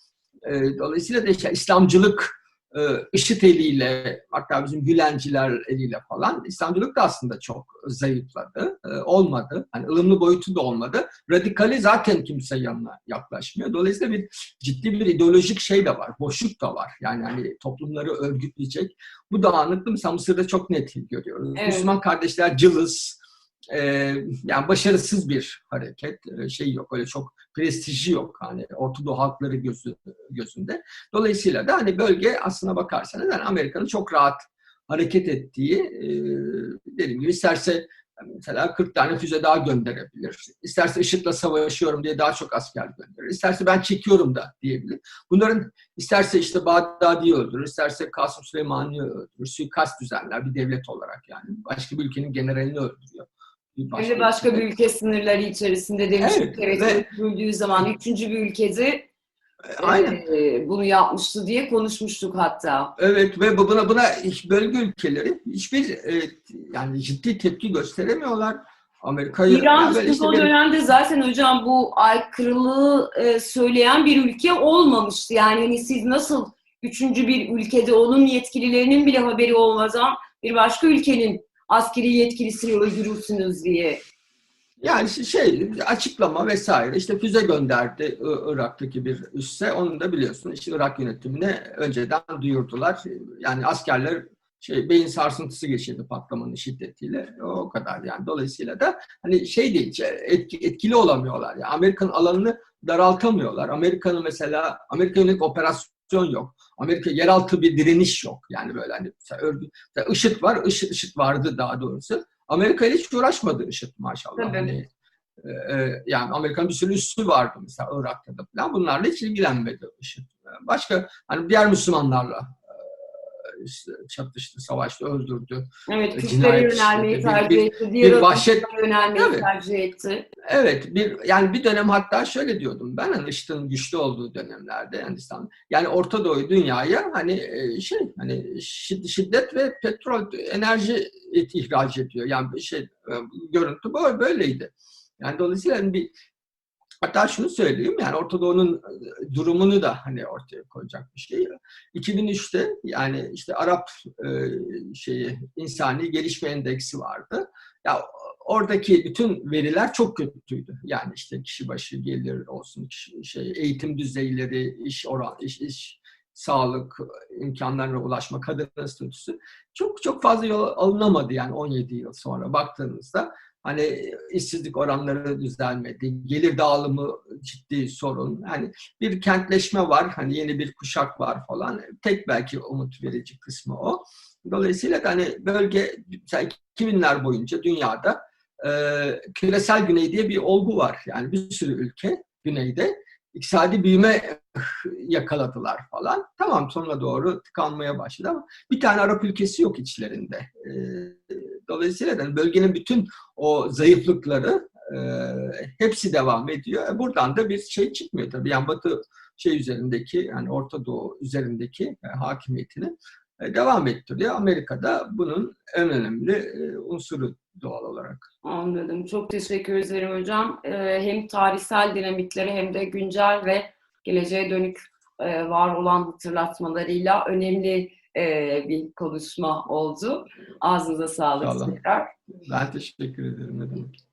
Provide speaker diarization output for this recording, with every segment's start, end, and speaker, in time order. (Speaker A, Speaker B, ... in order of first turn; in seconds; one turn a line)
Speaker A: 0.4-23.2
Speaker B: 21.6-21.9
Speaker A: 23.7-54.6
Speaker B: 53.9-59.1
Speaker A: 56.2-57.0
Speaker A: 59.7-60.2
Speaker B: 59.8-62.9
Speaker A: 63.0-70.5
Speaker B: 69.5-84.0
Speaker A: 84.8-114.9
Speaker B: 114.3-114.7
Speaker A: 115.4-122.6
Speaker A: 123.4-129.5
Speaker B: 125.9-130.3
Speaker A: 130.5-146.1
Speaker A: 147.0-218.3
Speaker B: 218.4-232.1
Speaker A: 231.4-231.7
Speaker A: 232.4-233.9